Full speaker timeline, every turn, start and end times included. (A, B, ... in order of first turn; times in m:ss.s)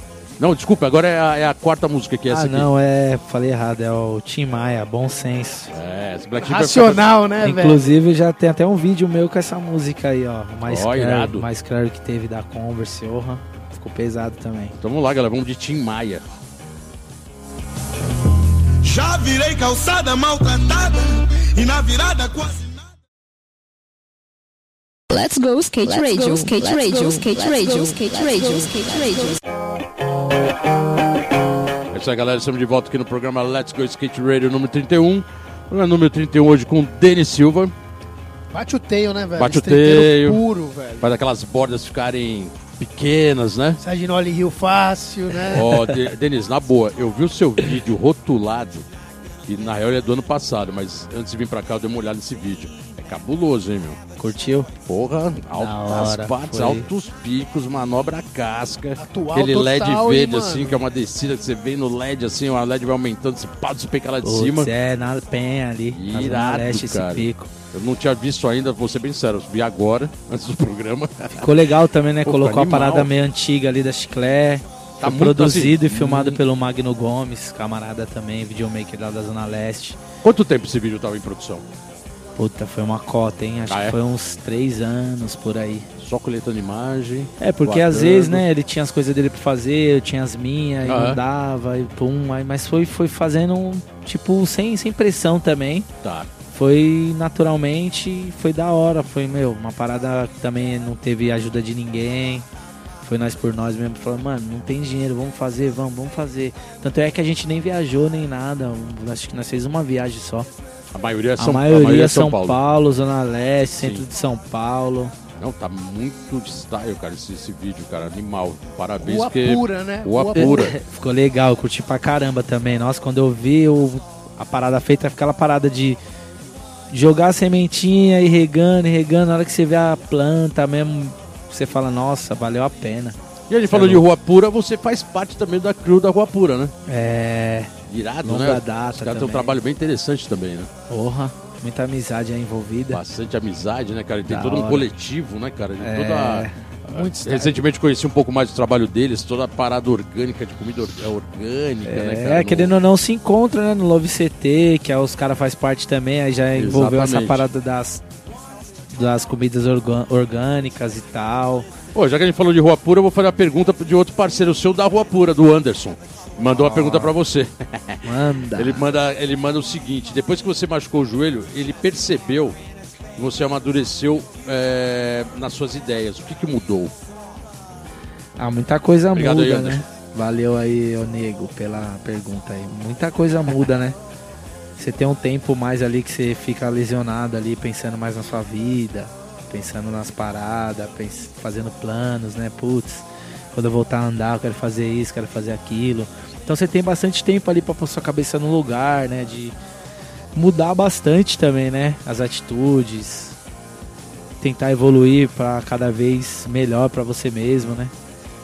0:00.4-0:02.7 A
0:02.3-0:05.7 B
0:05.7-0:07.1 A
0:06.4-0:07.8 C
0:07.4-0:14.8 B
0:10.6-0:11.5 A
0:14.8-0:16.2 A
0:18.8-0:22.9 D
0:25.1-0:29.4 E
0:31.9-0:37.7 A
0:38.5-0:41.1 C
0:39.4-0:40.4 A
0:41.0-0:43.8 A
0:43.8-0:45.6 C
0:45.4-0:48.8 A
0:49.4-0:54.0 A
0:54.2-0:54.7 B
0:54.8-1:04.7 A
0:55.6-0:56.9 B
0:59.0-1:00.8 C
1:04.2-1:07.5 B
1:05.9-1:11.5 A
1:11.3-1:20.0 B
1:12.2-1:13.1 A
1:15.0-1:16.4 A
1:20.2-1:21.6 A
1:22.4-1:25.9 B
1:23.6-1:24.0 A
1:26.0-1:28.4 A
1:27.4-1:35.9 B
1:30.8-1:31.2 A
1:36.0-1:36.3 A
1:36.5-1:42.4 B
1:43.0-1:50.5 B
1:50.9-1:52.6 A
1:51.4-1:55.1 B
1:53.8-1:54.1 A
1:55.4-2:00.7 A
1:59.0-2:00.7 C
2:00.4-2:06.0 B
2:06.9-2:13.2 B
2:13.5-2:16.7 A
2:13.7-2:14.0 B
2:16.9-2:17.7 B
2:17.9-2:20.7 A
2:18.2-2:19.5 B
2:20.9-2:23.0 B
2:22.9-2:32.8 A
2:24.3-2:24.9 B
2:25.8-2:27.5 B
2:31.8-2:38.0 B
2:36.6-2:37.4 A
2:38.9-2:41.7 B
2:41.9-2:52.6 A
2:46.5-2:47.1 B
2:48.0-2:48.8 B
2:53.2-2:56.9 A
2:58.4-3:04.0 B
2:59.1-2:59.8 A
3:04.8-3:13.0 B
3:13.5-3:19.5 B
3:20.3-3:23.3 B
3:24.4-3:27.9 B